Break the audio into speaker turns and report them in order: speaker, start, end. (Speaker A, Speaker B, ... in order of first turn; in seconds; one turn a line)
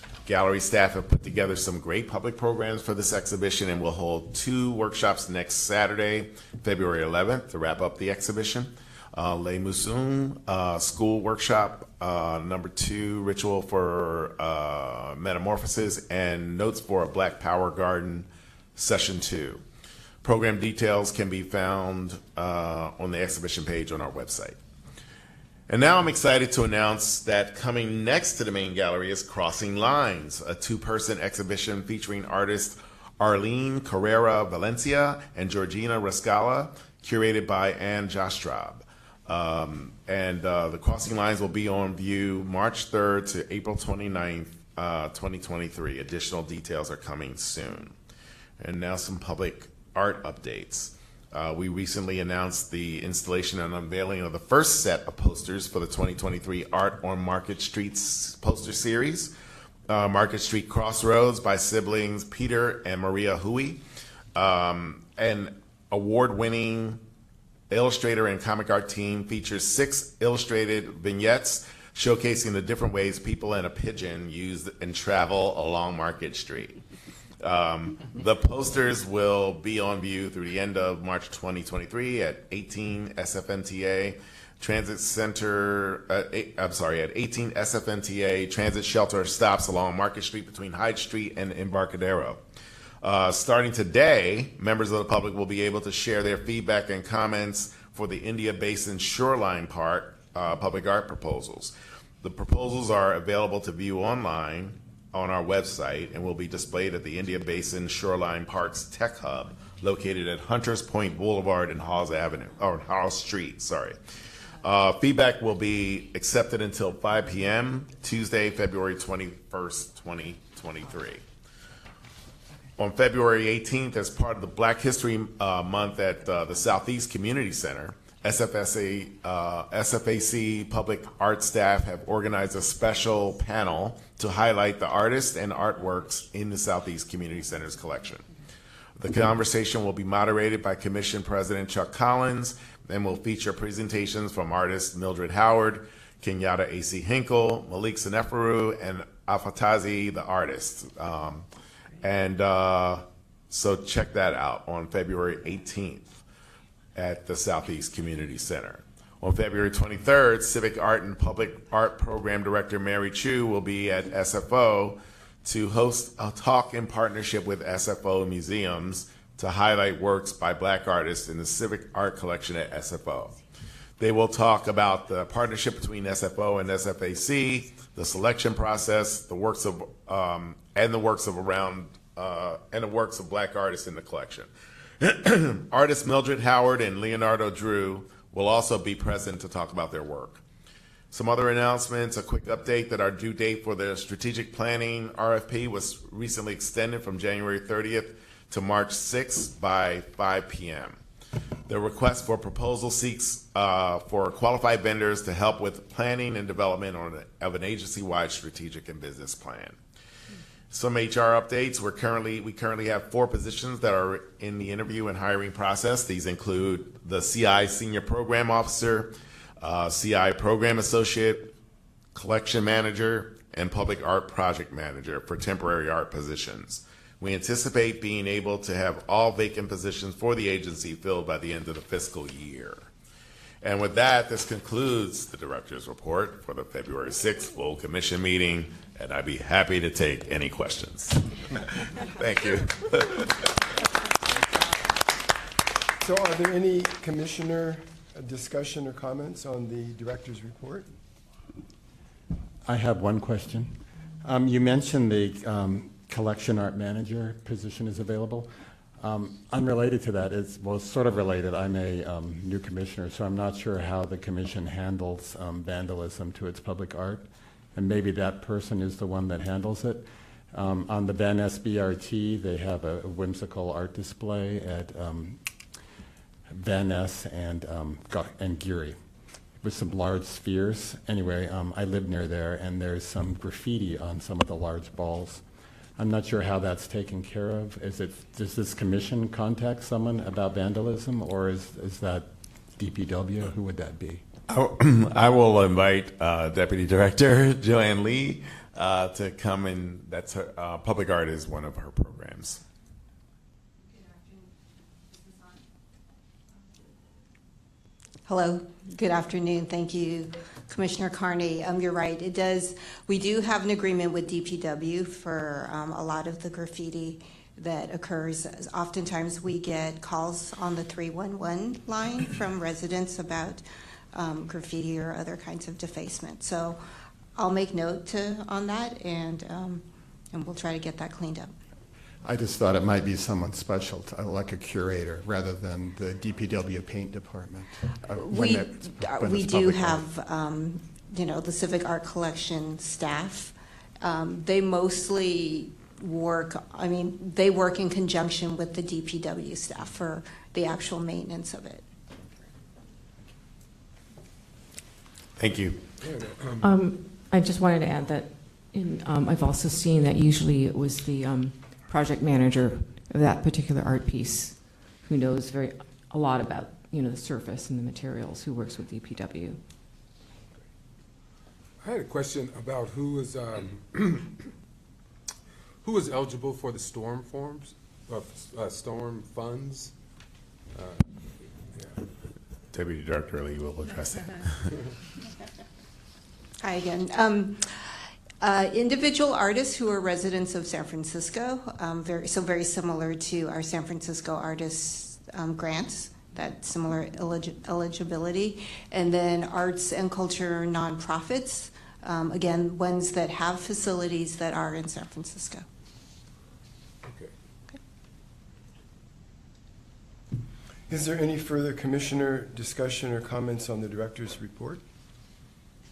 Speaker A: 0.3-19.6
Speaker A: 20.2-24.6
Speaker A: 25.7-48.0
Speaker A: 48.6-59.3
Speaker A: 59.9-63.8
Speaker A: 64.3-67.0
Speaker A: 67.7-76.8
Speaker A: 77.4-92.4
Speaker A: 93.0-114.0
Speaker A: 114.6-121.2
Speaker A: 122.8-138.3
Speaker A: 139.0-151.5
Speaker A: 152.0-156.2
Speaker A: 156.9-173.4
Speaker A: 174.0-184.5
Speaker A: 185.0-190.4
Speaker A: 191.1-201.0
Speaker A: 201.7-209.8
Speaker A: 210.7-221.5
Speaker A: 222.1-232.9
Speaker A: 233.6-243.5
Speaker B: 246.0-250.9
Speaker C: 252.7-275.4
Speaker C: 276.5-279.0
Speaker C: 279.5-285.4
Speaker C: 286.0-294.2
Speaker A: 294.5-302.6
Speaker D: 308.3-326.8
Speaker D: 327.3-331.5
Speaker E: 332.2-340.1
Speaker D: 338.2-351.9
Speaker A: 355.4-355.8
Speaker F: 356.0-356.7
Speaker G: 356.6-369.6
Speaker F: 371.8-374.4
Speaker F: 375.8-379.9
Speaker F: 380.7-382.0
Speaker A: 382.7-384.7
Speaker D: 386.6-405.6
Speaker F: 407.0-407.3
Speaker B: 410.9-414.8